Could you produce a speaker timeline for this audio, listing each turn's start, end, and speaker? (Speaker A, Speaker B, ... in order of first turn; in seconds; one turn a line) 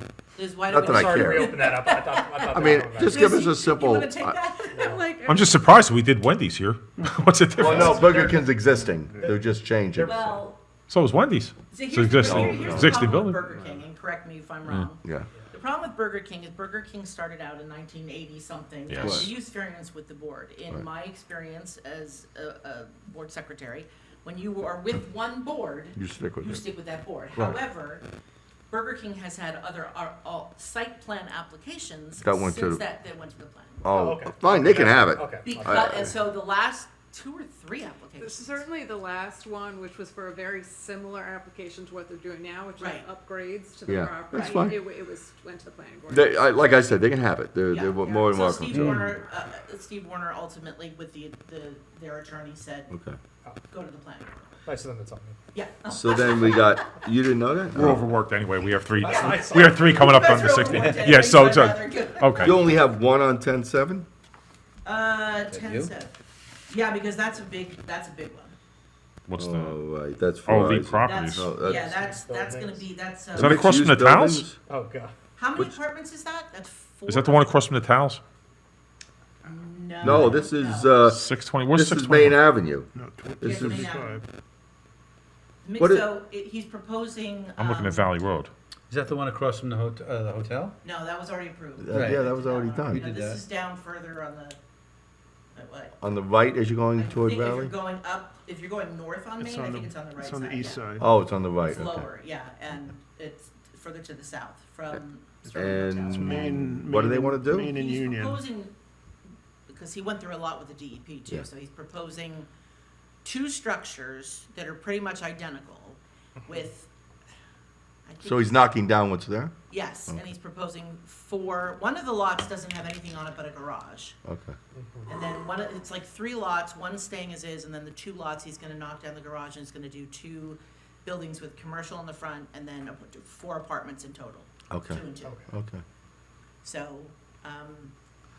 Speaker A: 0.3-5.0
Speaker B: 0.7-1.6
Speaker C: 0.7-3.5
Speaker B: 2.5-4.4
Speaker C: 4.7-5.0
Speaker D: 4.8-5.6
Speaker E: 5.2-8.4
Speaker B: 7.6-10.3
Speaker A: 10.0-10.6
Speaker E: 10.9-13.4
Speaker A: 11.7-28.0
Speaker B: 12.2-13.0
Speaker B: 15.0-15.3
Speaker E: 18.9-19.3
Speaker B: 19.0-19.3
Speaker B: 25.9-26.6
Speaker A: 28.7-33.8
Speaker B: 32.2-32.8
Speaker B: 33.8-36.1
Speaker C: 33.9-35.7
Speaker A: 35.4-38.6
Speaker D: 38.2-46.4
Speaker A: 42.8-43.0
Speaker B: 43.9-44.8
Speaker A: 44.3-44.7
Speaker B: 46.1-48.9
Speaker A: 47.7-52.9
Speaker B: 52.9-53.2
Speaker A: 53.7-54.4
Speaker C: 54.6-55.4
Speaker A: 55.5-56.8
Speaker B: 55.9-58.0
Speaker E: 57.7-62.6
Speaker C: 59.0-60.7
Speaker A: 59.0-62.7
Speaker F: 60.7-61.0
Speaker B: 62.4-64.1
Speaker A: 64.8-66.1
Speaker F: 65.5-65.9
Speaker A: 66.7-68.5
Speaker E: 69.3-69.8
Speaker B: 69.3-71.9
Speaker E: 70.5-71.5
Speaker A: 71.0-73.7
Speaker C: 71.9-72.8
Speaker E: 73.3-74.5
Speaker B: 73.3-74.6
Speaker C: 74.7-75.1
Speaker A: 75.3-77.6
Speaker E: 77.1-78.2
Speaker A: 79.4-80.9
Speaker B: 80.0-82.9
Speaker E: 81.0-82.4
Speaker G: 83.0-84.2
Speaker B: 83.4-83.9
Speaker A: 83.4-84.2
Speaker A: 85.6-88.1
Speaker B: 85.8-86.1
Speaker E: 87.6-88.5
Speaker F: 88.9-90.7
Speaker A: 90.8-94.6
Speaker B: 91.8-93.0
Speaker F: 91.9-92.2
Speaker F: 92.9-93.4
Speaker A: 95.5-95.9
Speaker B: 96.0-97.7
Speaker A: 97.0-100.9
Speaker G: 99.4-101.1
Speaker B: 101.0-102.1
Speaker A: 101.6-106.7
Speaker B: 105.5-107.8
Speaker G: 106.1-108.4
Speaker A: 107.6-108.7
Speaker A: 109.7-112.5
Speaker A: 113.2-116.9
Speaker A: 118.0-118.7
Speaker B: 118.2-119.5
Speaker A: 119.7-124.2
Speaker B: 124.2-124.5
Speaker C: 124.8-125.0
Speaker A: 125.1-135.4
Speaker B: 134.7-135.8
Speaker A: 136.6-137.9